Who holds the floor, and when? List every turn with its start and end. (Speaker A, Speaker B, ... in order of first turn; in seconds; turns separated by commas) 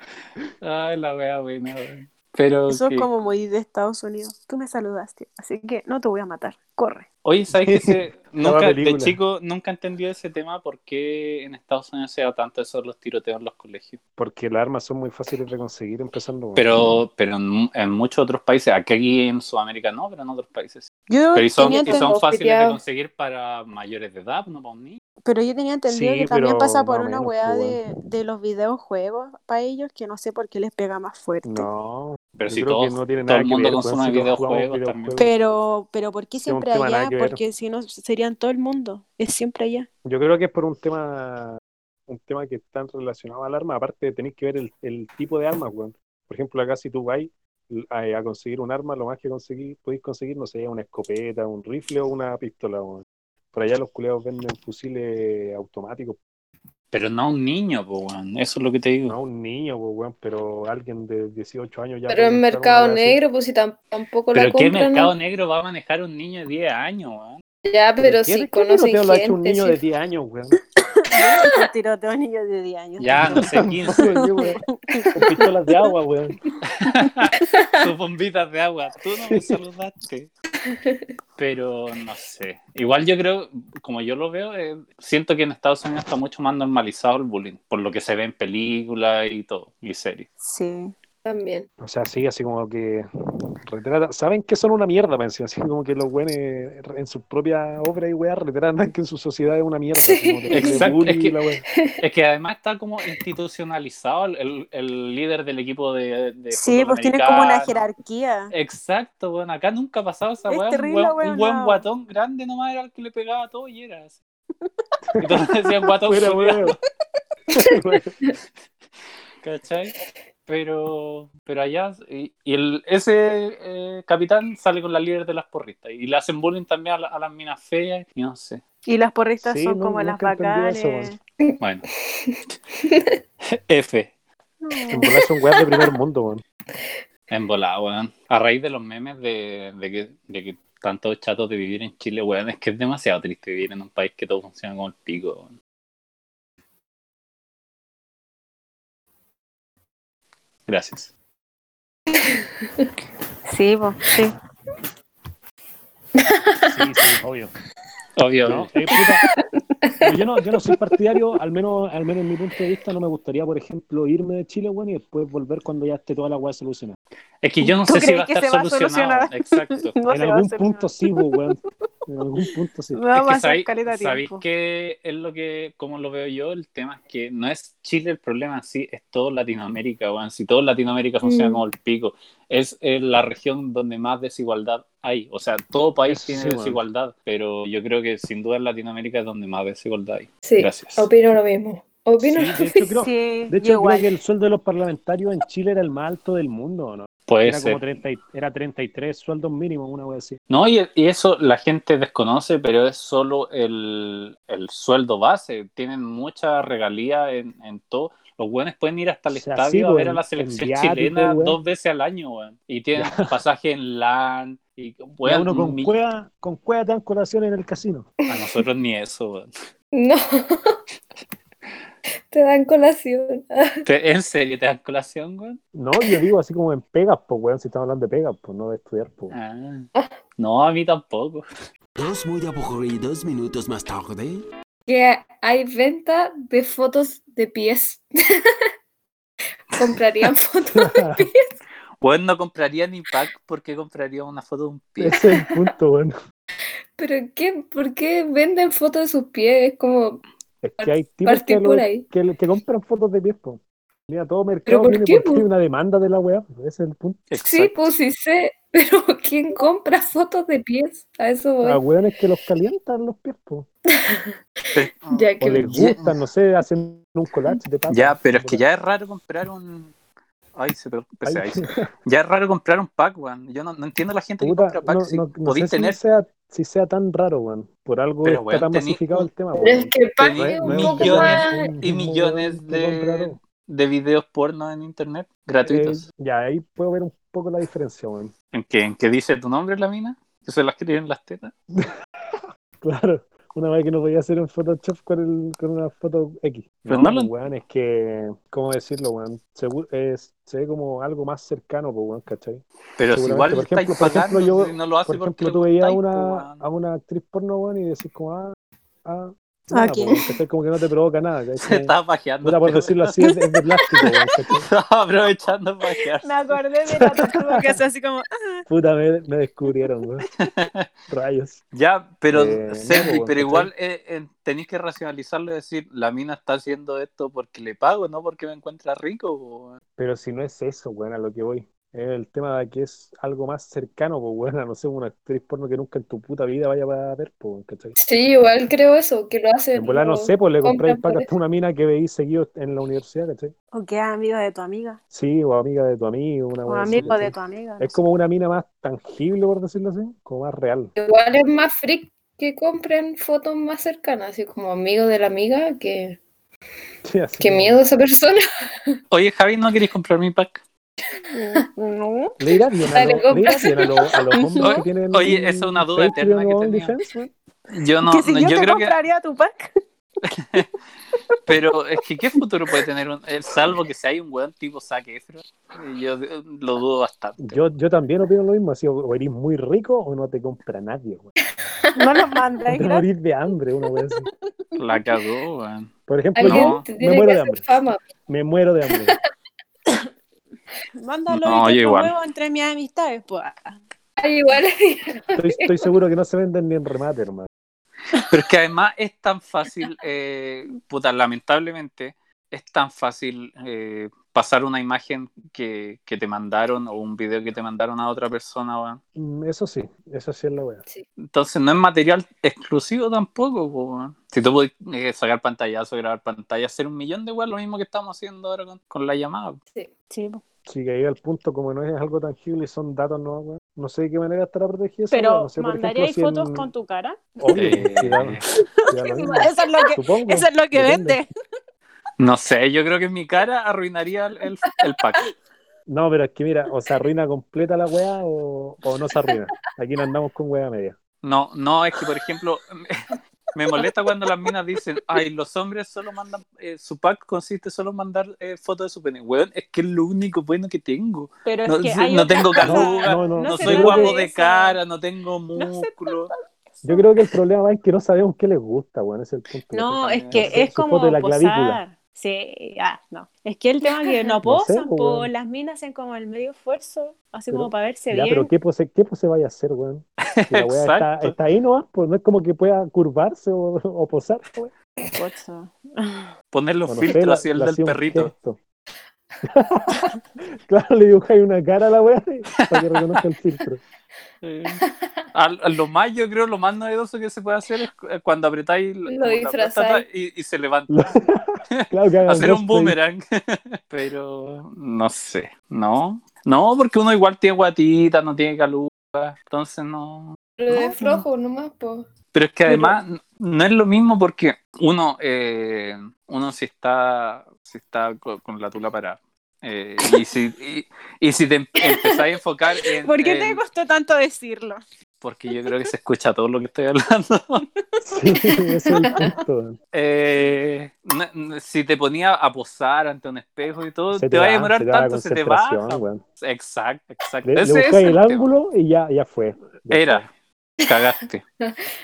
Speaker A: 0.6-3.1, Speaker B: 2.7-7.1, Speaker A: 7.2-14.0, Speaker C: 7.5-9.2, Speaker C: 14.2-16.7, Speaker A: 16.6-25.0, Speaker B: 21.1-22.1, Speaker D: 21.6-22.8, Speaker B: 25.2-31.7, Speaker C: 25.9-27.8, Speaker C: 31.4-35.4, Speaker A: 32.4-35.2, Speaker B: 35.2-39.9, Speaker C: 36.4-37.4, Speaker C: 40.0-56.2, Speaker A: 56.9-59.2, Speaker C: 59.1-63.2, Speaker D: 62.1-65.1, Speaker A: 64.3-67.4, Speaker D: 67.7-69.8, Speaker C: 68.0-70.6, Speaker B: 71.0-75.4, Speaker A: 73.0-74.2, Speaker C: 73.3-74.6, Speaker C: 75.1-76.4, Speaker A: 76.7-80.3, Speaker C: 79.3-79.6, Speaker D: 80.7-81.0, Speaker A: 81.4-90.3, Speaker B: 90.4-90.9, Speaker D: 91.2-91.7, Speaker C: 91.8-93.0, Speaker C: 93.7-101.6, Speaker D: 100.0-100.9, Speaker A: 100.5-101.4, Speaker A: 102.0-107.8, Speaker B: 106.5-108.5, Speaker A: 108.5-114.2, Speaker B: 110.5-111.8, Speaker A: 115.2-116.8, Speaker C: 116.0-116.8, Speaker C: 117.5-118.1, Speaker A: 119.4-119.9, Speaker A: 120.5-128.6, Speaker B: 128.9-131.2, Speaker C: 129.4-131.2, Speaker D: 132.2-133.2, Speaker A: 133.7-134.1, Speaker B: 134.6-135.1, Speaker C: 134.9-136.4, Speaker D: 135.6-135.9, Speaker A: 137.3-145.5, Speaker A: 150.7-151.1, Speaker B: 153.5-154.3, Speaker D: 156.2-156.7, Speaker C: 156.7-157.5, Speaker A: 158.2-158.7, Speaker C: 158.4-159.2, Speaker C: 160.0-167.0, Speaker A: 167.4-169.9, Speaker B: 167.6-171.3, Speaker C: 170.1-173.0, Speaker B: 172.9-174.4, Speaker A: 173.1-191.1, Speaker D: 181.2-181.6, Speaker C: 186.1-186.8, Speaker D: 190.4-192.9, Speaker C: 192.2-200.4, Speaker B: 193.0-194.1, Speaker A: 197.3-197.8, Speaker A: 200.5-215.9, Speaker C: 209.3-211.6, Speaker C: 212.9-213.4, Speaker C: 215.2-218.1, Speaker D: 218.3-218.6, Speaker A: 218.3-219.5, Speaker D: 219.9-220.8, Speaker D: 222.3-223.8, Speaker A: 223.8-225.6, Speaker C: 225.7-229.3, Speaker A: 229.3-229.9, Speaker A: 230.4-231.4, Speaker E: 232.0-234.4, Speaker D: 234.9-238.5, Speaker D: 239.7-241.4, Speaker C: 240.8-241.3, Speaker A: 242.0-245.2, Speaker C: 245.0-246.1, Speaker D: 245.1-245.6, Speaker D: 247.0-250.2, Speaker C: 250.6-257.3, Speaker D: 250.8-252.1, Speaker D: 254.7-255.4, Speaker A: 257.3-257.7, Speaker D: 257.4-261.8, Speaker C: 261.6-263.7, Speaker D: 263.9-266.0, Speaker A: 264.7-266.1, Speaker C: 265.4-268.6, Speaker A: 267.9-269.9, Speaker A: 270.6-276.0, Speaker C: 271.2-271.9, Speaker C: 274.4-283.4, Speaker A: 278.2-279.3, Speaker D: 279.6-281.7, Speaker A: 280.2-286.0, Speaker C: 285.6-288.3, Speaker A: 288.5-291.5, Speaker C: 291.7-314.7, Speaker A: 296.9-297.3, Speaker A: 303.0-306.6, Speaker B: 309.7-310.2, Speaker A: 311.6-313.2, Speaker A: 314.6-316.3, Speaker B: 316.2-318.6, Speaker C: 317.0-317.4, Speaker C: 318.7-320.3, Speaker A: 320.4-320.9, Speaker C: 321.1-321.6, Speaker A: 321.7-329.8, Speaker C: 322.3-323.7, Speaker C: 330.0-337.9, Speaker D: 338.0-341.3, Speaker C: 339.8-343.5, Speaker B: 343.7-345.0, Speaker C: 345.1-350.9, Speaker B: 346.7-348.0, Speaker D: 351.0-356.2, Speaker C: 357.1-357.8, Speaker D: 357.4-359.0, Speaker A: 359.1-360.6, Speaker B: 361.3-362.4, Speaker C: 362.4-367.3, Speaker D: 362.9-364.1, Speaker B: 364.3-364.8, Speaker A: 364.6-367.0, Speaker A: 367.7-368.9, Speaker B: 368.1-369.7, Speaker A: 370.3-370.7, Speaker A: 371.5-377.6, Speaker C: 377.4-381.3, Speaker B: 381.9-383.1, Speaker C: 382.7-384.3, Speaker A: 384.8-386.8, Speaker C: 386.1-387.6, Speaker D: 386.4-388.0, Speaker C: 388.3-389.2, Speaker B: 391.0-393.8, Speaker A: 391.3-392.1, Speaker D: 394.2-395.9, Speaker C: 395.4-397.5, Speaker A: 398.2-409.0, Speaker C: 409.2-410.8, Speaker A: 411.3-419.6, Speaker B: 420.1-420.4, Speaker C: 420.7-426.7, Speaker B: 425.1-427.6, Speaker C: 427.4-431.2, Speaker A: 427.5-428.4, Speaker B: 428.9-431.3, Speaker D: 429.1-429.6, Speaker A: 432.2-435.3, Speaker C: 435.9-441.0, Speaker A: 441.2-456.3, Speaker B: 451.5-454.8, Speaker C: 452.6-454.1, Speaker B: 455.6-457.0, Speaker C: 456.8-461.8, Speaker B: 459.7-468.5, Speaker A: 460.0-460.6, Speaker C: 464.4-465.3, Speaker C: 467.5-474.7, Speaker A: 470.3-471.3, Speaker B: 475.1-476.3, Speaker A: 476.5-478.3, Speaker C: 476.9-478.6, Speaker C: 479.4-480.1, Speaker C: 480.7-483.8, Speaker A: 482.6-483.2, Speaker A: 484.4-484.8, Speaker A: 485.3-491.1, Speaker D: 489.1-490.1, Speaker C: 490.9-493.0, Speaker A: 491.7-501.2, Speaker D: 500.6-502.1, Speaker A: 502.3-513.6, Speaker B: 513.0-514.8, Speaker A: 515.2-517.6, Speaker B: 518.0-519.3, Speaker C: 518.1-519.8, Speaker A: 519.9-528.5, Speaker C: 524.1-526.2, Speaker C: 527.5-530.2, Speaker A: 529.9-531.4